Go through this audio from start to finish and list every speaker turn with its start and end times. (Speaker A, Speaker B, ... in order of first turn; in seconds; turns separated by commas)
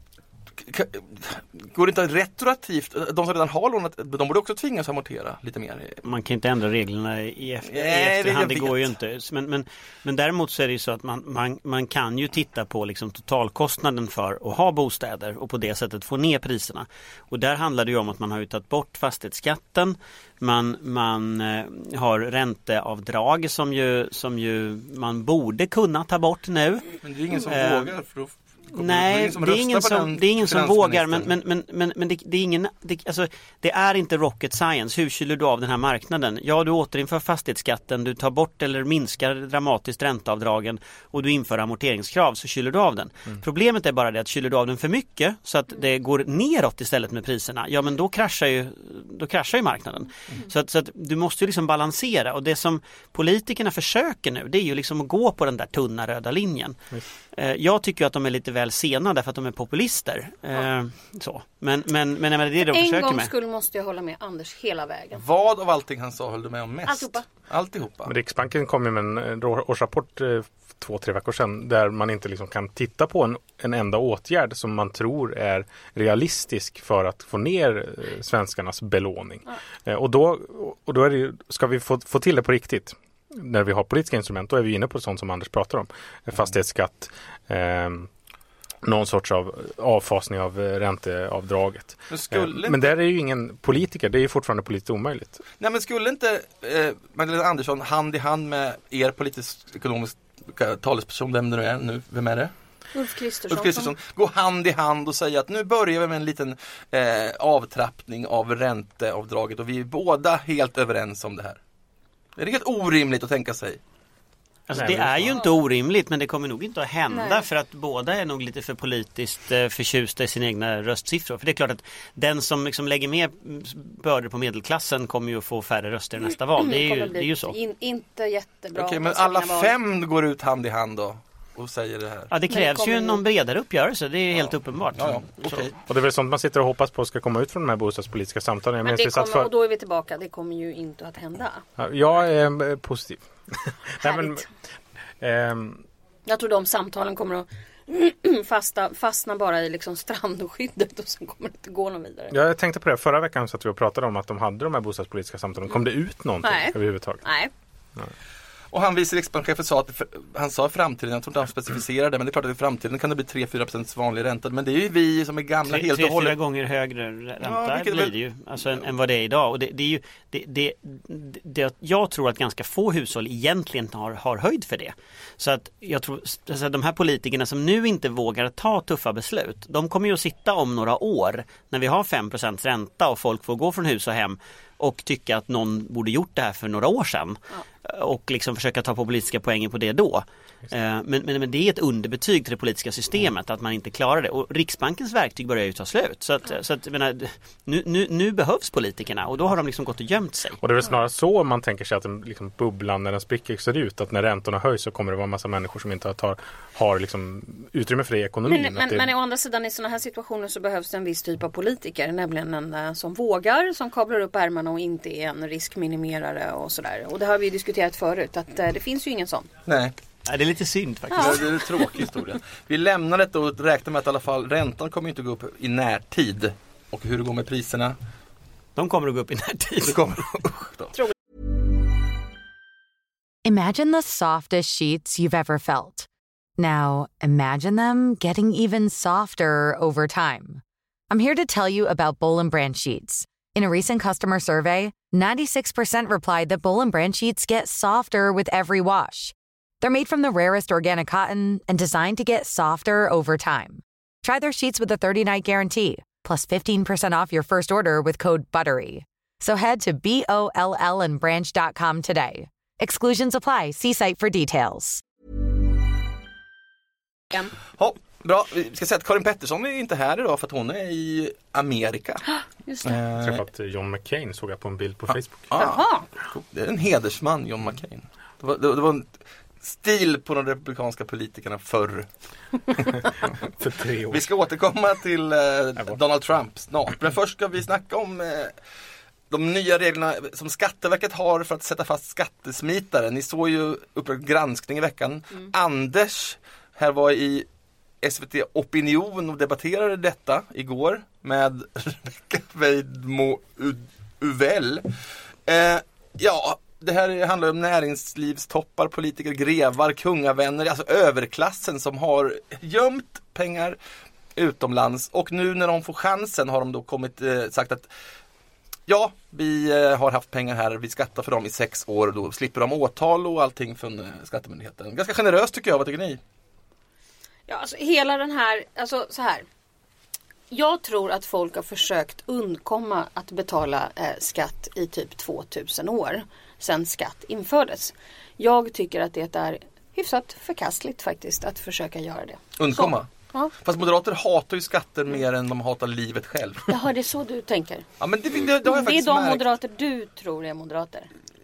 Speaker A: 0.6-6.0, Speaker B: 6.0-27.9, Speaker A: 7.7-8.9, Speaker A: 27.0-31.3, Speaker B: 28.8-56.8, Speaker B: 57.4-63.3, Speaker C: 62.6-65.2, Speaker A: 65.2-68.1, Speaker C: 66.9-67.2, Speaker D: 68.1-88.1, Speaker D: 88.8-95.4, Speaker A: 92.1-93.0, Speaker A: 95.6-102.5, Speaker C: 102.9-103.9, Speaker A: 103.5-111.6, Speaker A: 112.4-113.8, Speaker B: 114.7-127.6, Speaker D: 114.7-115.4, Speaker C: 117.1-117.5, Speaker C: 126.6-129.7, Speaker A: 128.8-132.3, Speaker B: 132.3-135.7, Speaker C: 132.5-133.2, Speaker A: 135.0-135.8, Speaker D: 135.9-139.5, Speaker C: 138.8-141.6, Speaker D: 141.8-144.4, Speaker C: 144.0-144.4, Speaker D: 145.2-145.9, Speaker C: 146.3-152.4, Speaker D: 152.3-157.2, Speaker C: 156.4-157.5, Speaker A: 158.7-166.4, Speaker B: 165.7-200.6, Speaker A: 167.4-168.2, Speaker D: 200.6-209.1, Speaker C: 208.5-219.5, Speaker A: 219.7-219.9, Speaker B: 220.3-221.5, Speaker C: 221.1-221.5, Speaker A: 221.1-228.0, Speaker B: 228.8-230.0, Speaker A: 229.8-231.0, Speaker E: 233.4-265.0, Speaker A: 267.8-272.2, Speaker C: 272.7-273.0, Speaker A: 272.8-273.4, Speaker D: 273.2-275.5, Speaker A: 275.5-282.1, Speaker C: 275.6-276.1, Speaker D: 282.9-284.3, Speaker A: 284.1-288.5, Speaker A: 289.3-297.5, Speaker A: 298.0-304.9, Speaker A: 305.5-313.8, Speaker A: 314.4-317.9, Speaker A: 318.9-326.2, Speaker C: 327.5-329.5, Speaker C: 330.5-343.5, Speaker A: 342.6-343.1, Speaker A: 343.6-346.8, Speaker C: 346.7-347.9, Speaker A: 348.0-349.4, Speaker C: 348.6-351.1